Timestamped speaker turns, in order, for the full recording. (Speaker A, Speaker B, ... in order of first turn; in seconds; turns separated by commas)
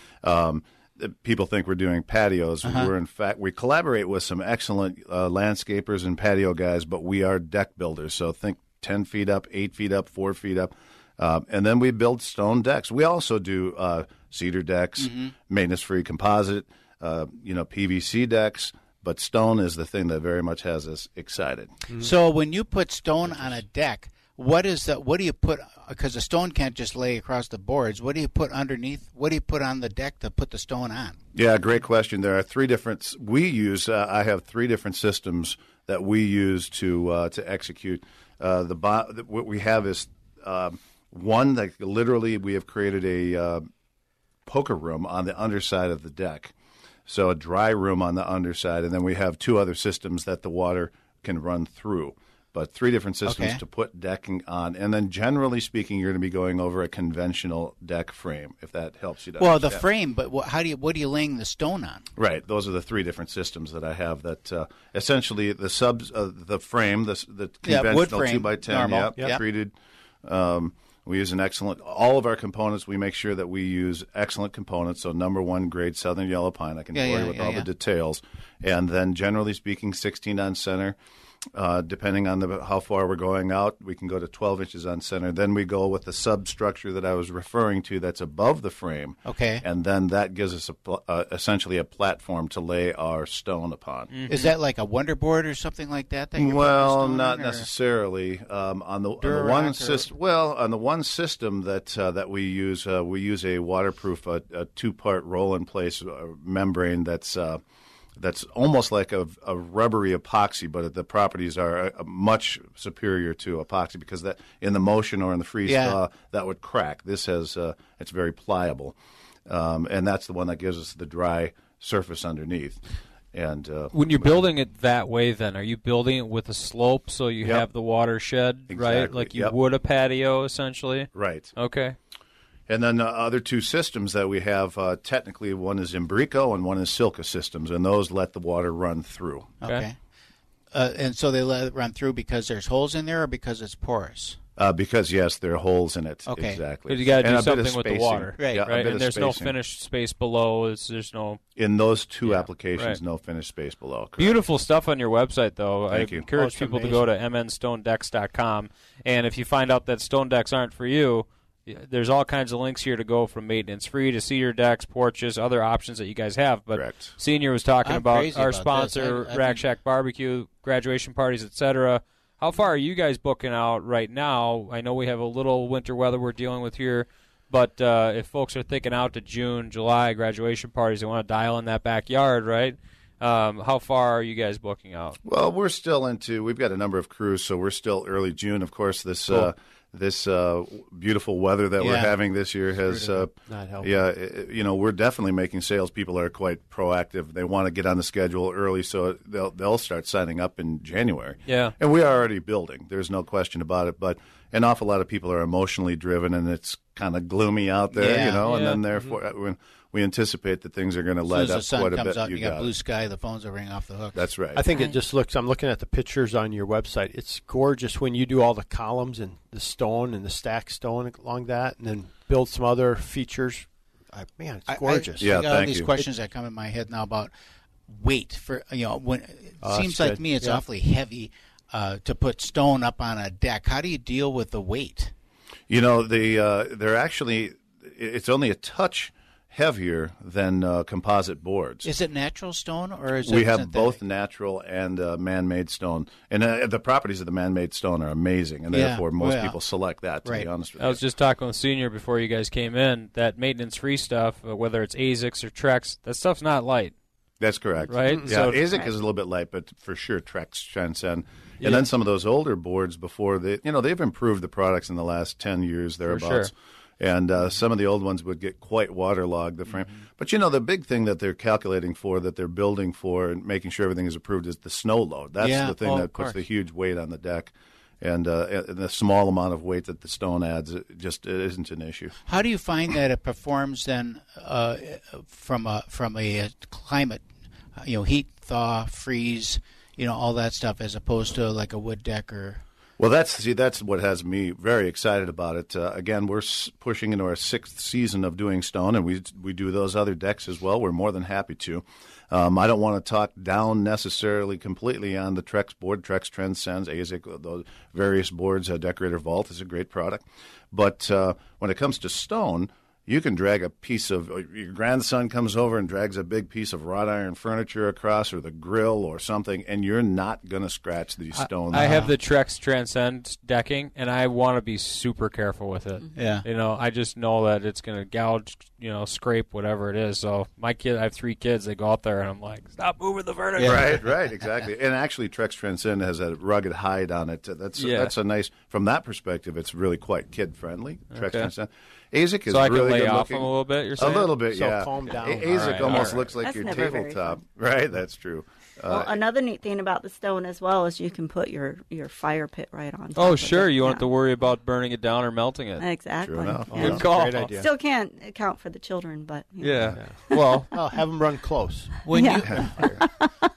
Speaker A: 0.2-21.8, Speaker B: 2.6-2.9, Speaker B: 15.0-15.3, Speaker C: 21.9-22.1, Speaker B: 22.0-31.2, Speaker A: 23.2-23.6, Speaker A: 31.3-43.6, Speaker A: 44.5-46.5, Speaker A: 47.1-59.8, Speaker B: 53.2-53.6, Speaker B: 59.4-62.0, Speaker A: 62.2-69.7, Speaker B: 67.6-69.4, Speaker A: 70.2-81.0, Speaker B: 76.9-77.7, Speaker A: 81.5-94.1, Speaker B: 89.2-89.6, Speaker D: 94.1-94.5, Speaker B: 94.3-97.7, Speaker A: 96.4-107.6, Speaker B: 99.2-100.1, Speaker A: 108.2-118.9, Speaker B: 115.6-116.0, Speaker A: 119.5-122.8, Speaker A: 123.3-124.5, Speaker D: 123.9-131.9, Speaker A: 128.7-129.5, Speaker A: 131.1-131.5, Speaker A: 132.7-139.5, Speaker B: 139.6-139.9, Speaker B: 140.7-144.4, Speaker A: 144.6-149.6, Speaker B: 146.3-146.6, Speaker D: 146.8-151.4, Speaker B: 148.4-148.7, Speaker A: 151.6-154.4, Speaker D: 152.2-153.0, Speaker D: 154.2-185.2, Speaker A: 155.9-156.2, Speaker C: 156.3-157.1, Speaker A: 166.7-167.1, Speaker B: 167.8-169.6, Speaker A: 185.2-212.7, Speaker B: 191.8-192.2, Speaker C: 192.8-193.9, Speaker B: 192.8-193.2, Speaker D: 201.4-201.8, Speaker B: 207.9-208.4, Speaker D: 208.4-208.8, Speaker C: 208.9-209.2, Speaker B: 211.3-214.2, Speaker A: 214.1-214.6, Speaker C: 214.5-225.3, Speaker B: 224.7-227.3, Speaker A: 225.2-225.9, Speaker B: 227.9-235.1, Speaker C: 229.6-230.6, Speaker A: 235.7-241.9, Speaker B: 241.8-244.0, Speaker A: 243.2-251.0, Speaker B: 248.7-249.6, Speaker D: 250.8-256.9, Speaker A: 257.4-282.1, Speaker D: 257.9-258.7, Speaker C: 258.0-258.4, Speaker E: 258.6-259.0, Speaker D: 266.1-266.5, Speaker B: 269.7-270.0, Speaker B: 275.4-276.4, Speaker B: 282.3-287.2, Speaker B: 287.8-292.6, Speaker A: 293.0-322.0, Speaker D: 321.3-334.0, Speaker B: 321.8-322.1, Speaker B: 326.1-326.4, Speaker B: 333.6-333.9, Speaker A: 333.6-349.1, Speaker D: 337.8-338.1, Speaker D: 341.1-341.5, Speaker D: 342.5-344.4, Speaker C: 344.4-346.3, Speaker D: 345.5-346.4, Speaker E: 346.3-347.4, Speaker E: 348.9-354.1, Speaker D: 353.1-355.9, Speaker E: 355.8-360.6, Speaker A: 356.2-357.0, Speaker C: 356.7-357.7, Speaker D: 356.7-357.6, Speaker D: 359.6-360.0, Speaker C: 359.9-362.0, Speaker B: 362.1-363.0, Speaker E: 362.1-363.3, Speaker C: 362.6-363.0